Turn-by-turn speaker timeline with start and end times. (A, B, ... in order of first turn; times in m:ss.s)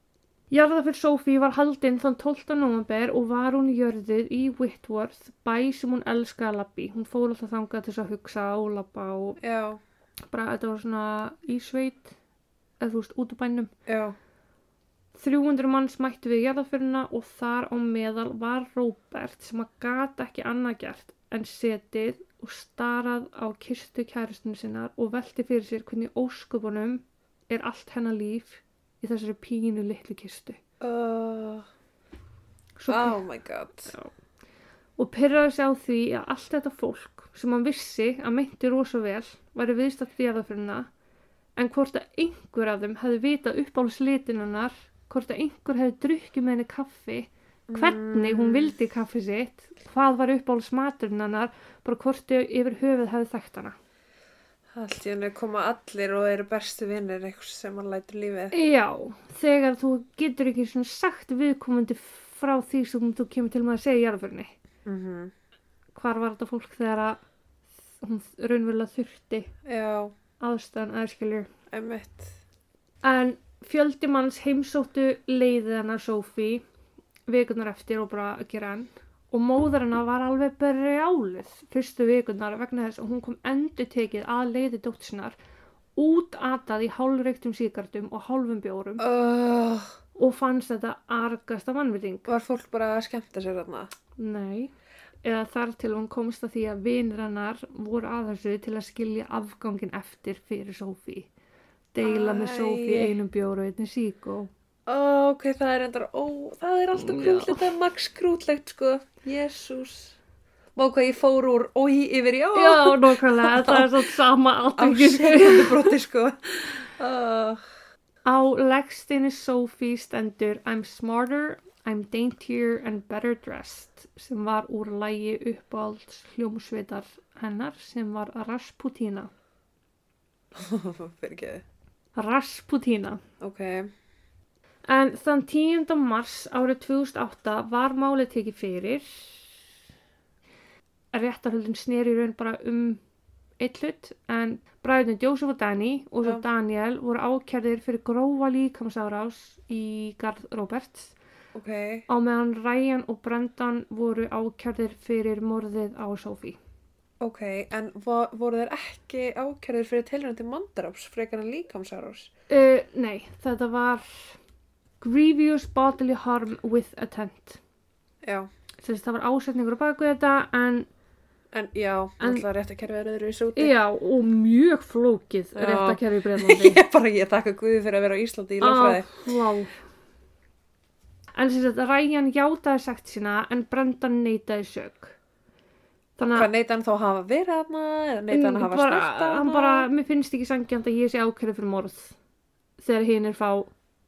0:00.5-0:09.4 A
0:09.4-0:09.8 B
0:10.3-0:12.2 A
0:12.8-0:13.7 A
0:13.9-0:14.2 B
0:15.2-0:30.6 A
0:30.8-0:31.6 B
0:32.8-0:33.2 A
0:32.9-0:33.9 B
0:35.0-0:40.9 A
0:41.6-0:53.8 A
0:47.7-0:48.8 B
0:54.7-0:58.6 B
0:58.5-1:04.5 A
1:04.8-1:05.3 B
1:06.0-1:07.2 A
1:08.0-1:09.5 A
1:09.6-1:10.1 B
1:10.4-1:11.5 A
1:11.7-1:12.4 B
1:13.0-1:16.6 A
1:17.3-1:25.4 A
1:26.0-1:29.0 A
1:29.0-1:30.0 B
1:30.2-1:32.3 A
1:32.3-1:33.9 B
1:34.2-1:34.7 A
1:35.2-1:41.3 A
1:41.9-1:44.5 A
1:42.0-1:43.2 B
1:44.9-1:50.2 B
1:47.0-1:47.7 A
1:50.8-1:54.1 B
1:52.6-1:55.9 A
1:54.8-1:57.6 B
1:58.3-2:09.3 A
2:10.6-2:11.6 B
2:12.2-2:13.2 A
2:13.4-2:13.9 B
2:14.9-2:19.6 A
2:21.1-2:23.0 A
2:23.6-2:31.2 A
2:31.5-2:32.1 B
2:32.1-2:36.6 A
2:37.2-2:42.3 B
2:42.5-2:44.4 A
2:45.0-2:47.6 A
2:48.2-2:48.5 B
2:48.8-2:50.9 A
2:51.5-2:53.7 B
2:52.2-2:52.4 A
2:53.6-2:56.8 A
2:55.6-2:59.3 B
2:58.6-2:59.7 A
3:01.4-3:05.2 A
3:06.2-3:06.5 A
3:06.4-3:09.9 B
3:08.3-3:12.2 A
3:12.8-3:13.7 A